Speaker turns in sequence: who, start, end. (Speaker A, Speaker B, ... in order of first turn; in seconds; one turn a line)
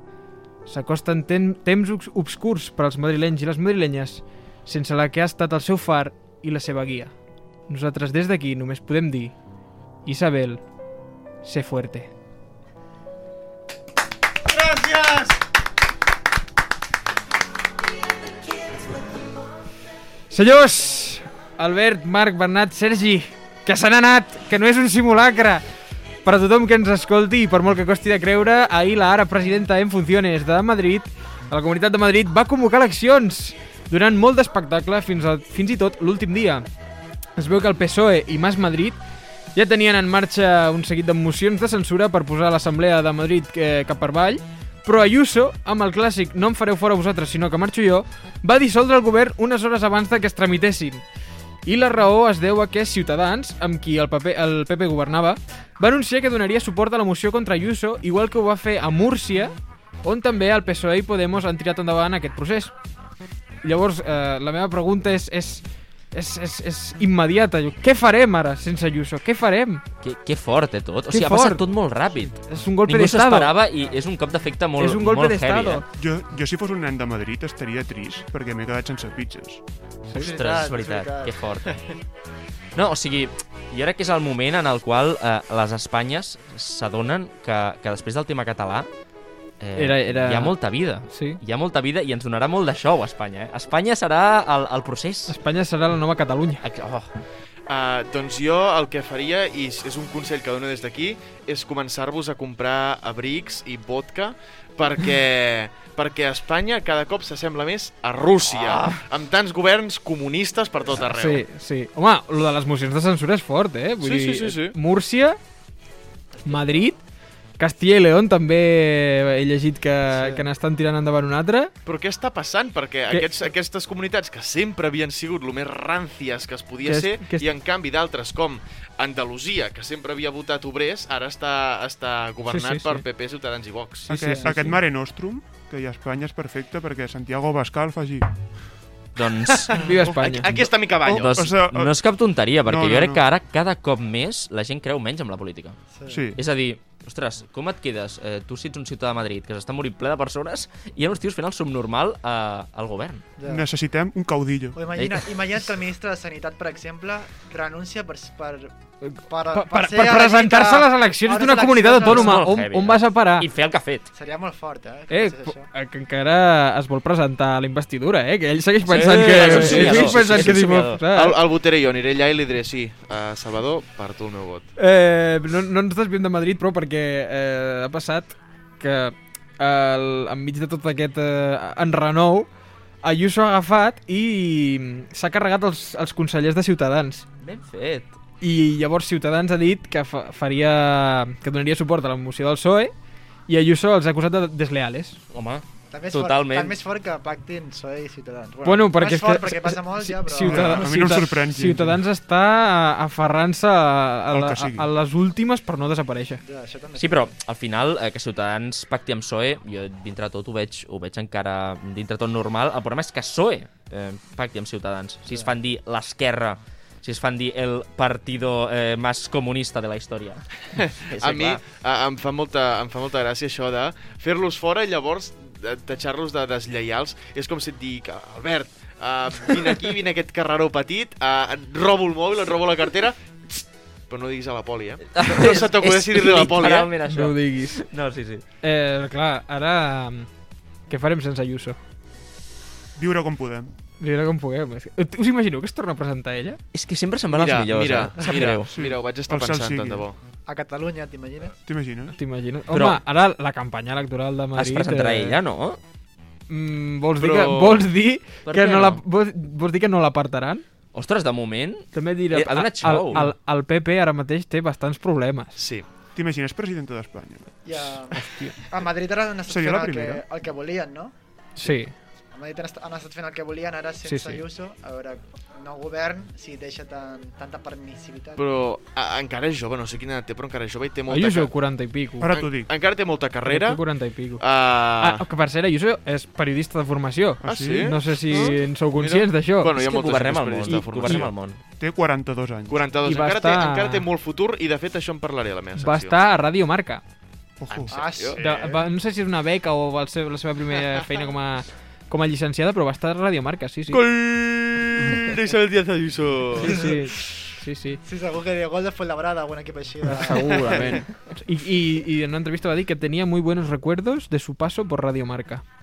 Speaker A: 0.7-7.1
Speaker A: 7.7-9.3
Speaker A: 10.0-10.6
Speaker A: 11.4-12.1
Speaker B: 14.6-15.3
Speaker A: 20.3-25.6
Speaker A: 26.2-36.6
Speaker A: 37.4-39.0
Speaker A: 39.5-51.0
Speaker A: 51.6-62.7
Speaker A: 63.6-69.8
Speaker C: 70.0-75.8
Speaker A: 71.1-71.6
Speaker A: 72.5-73.5
Speaker A: 74.8-75.8
Speaker D: 76.0-79.6
Speaker E: 80.2-81.3
Speaker C: 80.2-81.8
Speaker C: 82.7-88.9
Speaker C: 89.6-95.3
Speaker A: 89.8-90.5
Speaker A: 91.1-91.4
Speaker A: 95.3-96.6
Speaker C: 96.6-97.1
Speaker B: 97.7-111.4
Speaker A: 111.0-115.4
Speaker B: 114.0-114.7
Speaker E: 116.4-116.8
Speaker A: 116.4-117.0
Speaker A: 117.6-121.7
Speaker E: 120.1-120.4
Speaker B: 121.8-134.1
Speaker A: 126.8-127.4
Speaker A: 132.5-133.0
Speaker A: 134.1-134.7
Speaker D: 134.1-138.3
Speaker C: 139.2-139.7
Speaker A: 139.7-140.5
Speaker B: 140.1-141.3
Speaker D: 140.3-142.0
Speaker C: 141.1-145.8
Speaker D: 142.6-143.2
Speaker E: 145.9-146.3
Speaker D: 146.1-146.4
Speaker C: 146.3-153.2
Speaker E: 153.4-153.6
Speaker D: 153.4-154.8
Speaker E: 154.7-162.4
Speaker C: 154.9-155.2
Speaker A: 159.1-163.4
Speaker C: 162.1-164.1
Speaker E: 164.1-165.7
Speaker A: 165.1-171.4
Speaker C: 168.9-171.0
Speaker B: 169.3-170.6
Speaker B: 171.1-174.7
Speaker A: 174.8-182.5
Speaker A: 183.0-187.2
Speaker C: 187.4-188.1
Speaker A: 188.4-192.9
Speaker A: 193.5-195.2
Speaker C: 195.3-196.8
Speaker E: 195.9-201.0
Speaker A: 198.6-206.4
Speaker D: 200.4-202.0
Speaker D: 204.3-204.9
Speaker E: 206.4-207.3
Speaker C: 206.9-220.4
Speaker B: 220.8-236.9
Speaker C: 221.0-221.6
Speaker C: 235.1-238.4
Speaker A: 237.0-237.9
Speaker A: 238.6-240.3
Speaker A: 240.9-241.8
Speaker D: 242.9-243.7
Speaker A: 244.0-246.6
Speaker C: 246.7-248.7
Speaker B: 247.3-250.2
Speaker D: 248.7-250.0
Speaker E: 250.5-251.6
Speaker D: 251.6-252.1
Speaker A: 252.1-255.4
Speaker C: 252.7-253.0
Speaker C: 254.6-255.8
Speaker A: 256.5-260.6
Speaker B: 257.2-257.8
Speaker C: 258.4-259.0
Speaker C: 260.9-263.2
Speaker A: 261.9-265.6
Speaker B: 265.6-265.8
Speaker D: 266.1-267.9
Speaker E: 267.6-271.1
Speaker A: 268.1-268.5
Speaker D: 269.5-270.2
Speaker A: 271.6-271.9
Speaker E: 272.3-278.4
Speaker A: 274.0-274.4
Speaker B: 278.4-281.5
Speaker A: 281.1-282.3
Speaker D: 282.2-282.7
Speaker B: 282.2-283.8
Speaker A: 283.4-284.4
Speaker B: 284.4-285.2
Speaker A: 285.0-289.8
Speaker D: 287.4-288.0
Speaker B: 287.4-291.3
Speaker C: 289.7-291.6
Speaker A: 290.6-291.3
Speaker D: 291.8-292.9
Speaker B: 292.7-296.2
Speaker A: 293.0-294.0
Speaker A: 295.8-297.0
Speaker D: 297.6-298.4
Speaker B: 297.7-298.7
Speaker E: 297.9-298.5
Speaker A: 298.4-304.0
Speaker B: 303.9-307.4
Speaker A: 306.6-308.0
Speaker E: 306.6-306.9
Speaker E: 308.0-310.8
Speaker A: 310.0-315.6
Speaker B: 310.3-311.0